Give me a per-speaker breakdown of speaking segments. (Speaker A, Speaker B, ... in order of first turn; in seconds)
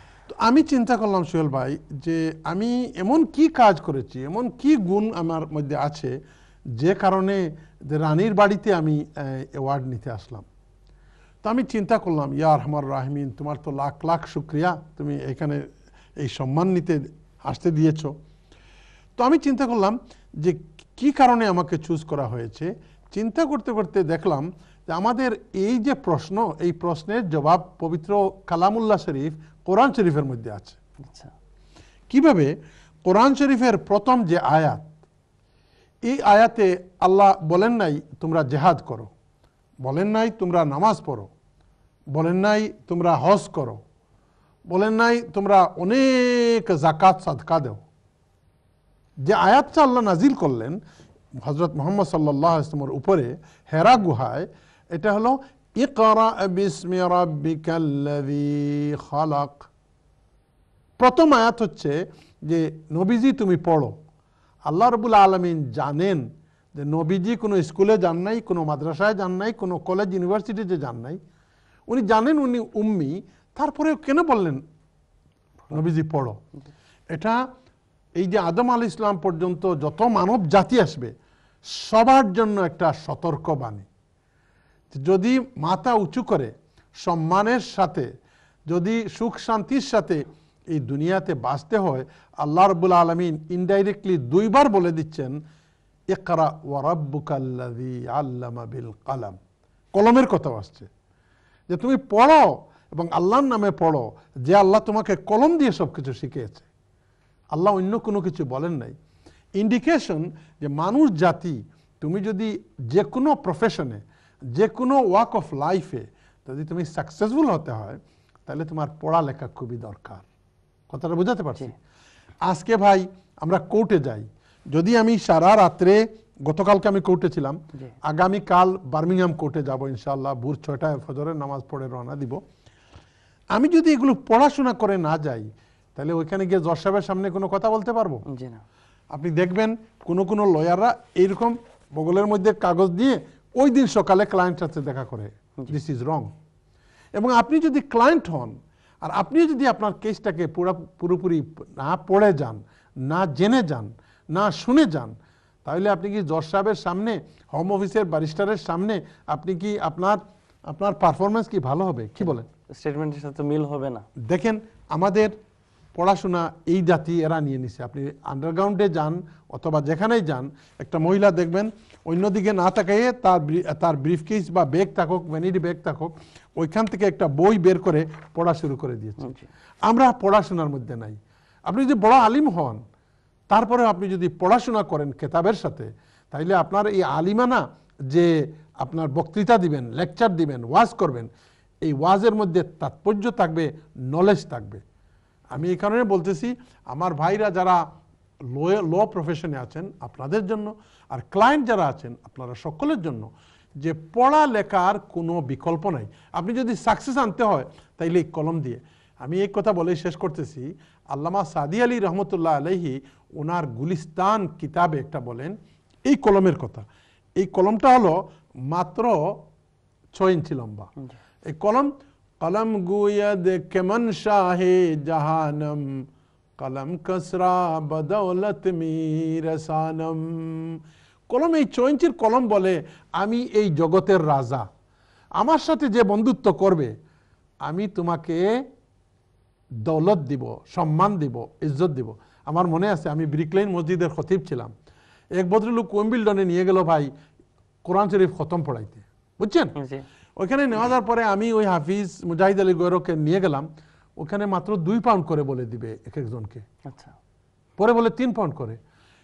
Speaker A: 0.3-6.2, 6.8-10.5, 11.4-15.7, 16.2-18.1, 19.2-30.8, 32.1-32.5, 33.0-34.9, 36.0-39.1, 39.8-41.3, 42.1-43.8, 44.7-47.8, 49.2-50.8, 51.4-59.7, 61.0-64.0, 64.7-71.2, 71.9-74.6, 75.7-76.4, 77.1-77.4, 78.2-81.1, 81.7-83.9, 84.9-88.1, 88.7-95.4, 96.1-99.4, 99.9-100.9, 101.7-106.7, 107.5-109.0, 109.5-120.2, 120.9-121.7, 122.4-132.4, 133.5-138.2, 139.1-146.3, 147.1-155.1, 155.7-162.5, 164.2-165.3, 165.9-179.3, 179.8-182.8, 183.5-191.3, 191.8-194.8, 195.5-197.8, 198.5-216.8, 217.4-219.5, 220.1-220.9, 221.5-226.1, 226.6-234.7, 235.4-236.9, 237.6-238.4, 239.8-244.7, 245.3-247.1, 247.8-249.7, 250.4-253.7, 254.2-256.6, 257.8-258.8
Speaker B: 138.3-138.6, 162.2-164.1, 179.2-179.5, 249.8-250.0, 256.9-257.1